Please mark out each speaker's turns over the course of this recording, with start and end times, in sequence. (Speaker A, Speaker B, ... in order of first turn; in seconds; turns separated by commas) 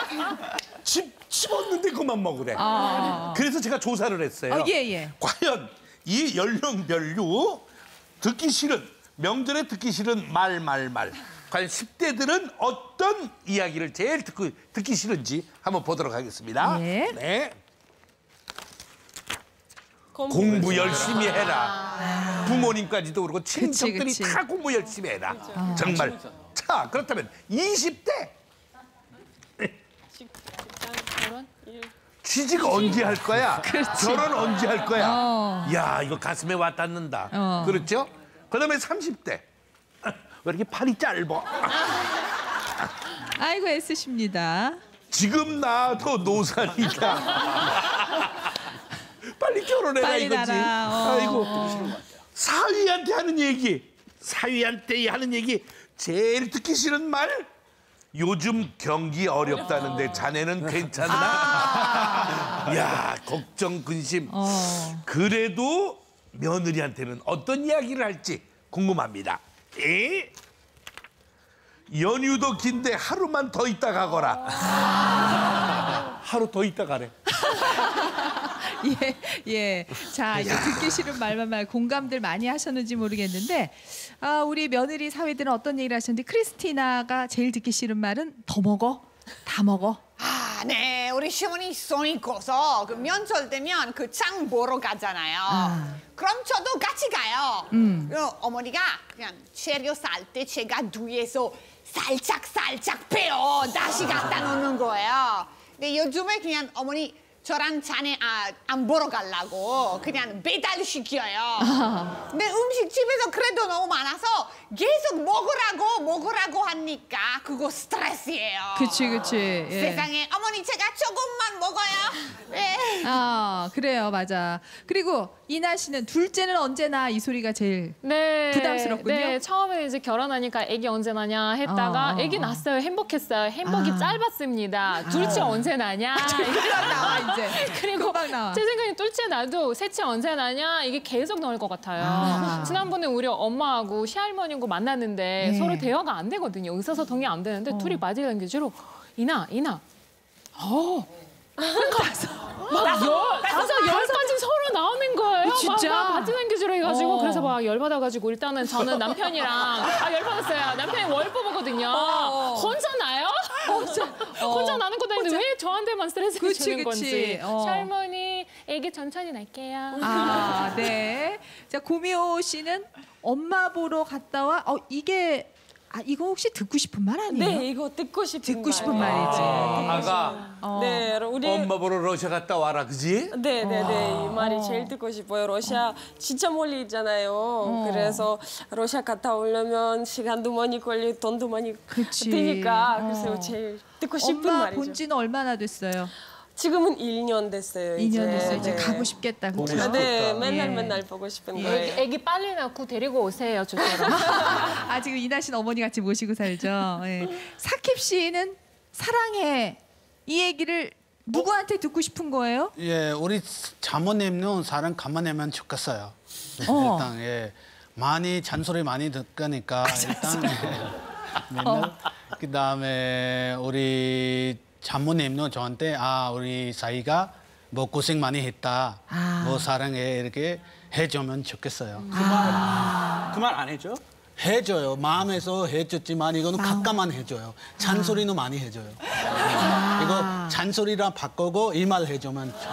Speaker A: 0.8-7.7, Speaker B: 2.5-3.4, Speaker B: 4.5-5.2, Speaker A: 8.2-17.5, Speaker B: 16.6-17.2, Speaker C: 20.1-21.7, Speaker A: 20.3-28.3, Speaker D: 20.5-21.3, Speaker B: 22.0-22.7, Speaker B: 23.5-24.4, Speaker C: 25.3-25.6, Speaker B: 25.5-26.0, Speaker D: 25.6-26.5, Speaker C: 30.2-31.9, Speaker A: 32.2-39.4, Speaker C: 32.6-32.9, Speaker B: 33.6-34.3, Speaker B: 34.9-35.8, Speaker B: 37.3-37.9, Speaker A: 40.0-42.2, Speaker B: 43.4-44.8, Speaker A: 45.1-48.5, Speaker A: 49.3-57.5, Speaker B: 50.0-51.8, Speaker D: 51.3-52.2, Speaker A: 58.1-70.3, Speaker C: 59.5-60.2, Speaker B: 61.0-62.6, Speaker B: 64.3-65.0, Speaker A: 71.9-74.7, Speaker A: 75.9-77.1, Speaker B: 77.3-90.0, Speaker A: 80.3-81.2, Speaker E: 90.2-111.8, Speaker B: 95.5-96.0, Speaker B: 97.7-98.1, Speaker B: 111.6-112.2, Speaker E: 112.3-119.0, Speaker B: 118.7-120.1, Speaker E: 119.7-123.2, Speaker B: 123.0-129.4, Speaker F: 128.0-149.8, Speaker B: 131.7-132.6, Speaker B: 133.6-134.2, Speaker B: 135.0-138.6, Speaker B: 142.0-142.9, Speaker B: 145.4-145.9, Speaker B: 147.7-148.0, Speaker B: 150.6-151.1, Speaker B: 151.7-154.4, Speaker F: 152.7-170.6, Speaker C: 152.7-153.6, Speaker B: 155.4-157.6, Speaker B: 161.9-162.8, Speaker B: 163.7-165.5, Speaker B: 166.4-167.9, Speaker C: 169.9-170.6, Speaker B: 170.0-177.7, Speaker C: 177.3-181.7, Speaker B: 178.4-181.1, Speaker A: 178.9-180.5, Speaker A: 181.4-183.3, Speaker C: 183.3-195.0, Speaker B: 183.6-184.9, Speaker B: 187.6-188.3, Speaker B: 191.9-193.6, Speaker B: 194.2-196.1, Speaker C: 196.6-199.1, Speaker B: 198.0-201.0, Speaker A: 198.5-198.8, Speaker A: 199.5-200.6, Speaker C: 199.6-202.0, Speaker F: 201.5-204.6, Speaker C: 203.8-204.1, Speaker B: 204.1-212.7, Speaker G: 212.8-232.9, Speaker B: 216.7-217.1, Speaker B: 220.2-220.5, Speaker B: 221.6-221.9, Speaker B: 229.1-229.7, Speaker D: 232.1-234.0, Speaker B: 232.1-233.4, Speaker G: 234.4-242.6, Speaker B: 236.6-237.0, Speaker B: 237.8-238.2, Speaker B: 239.4-240.6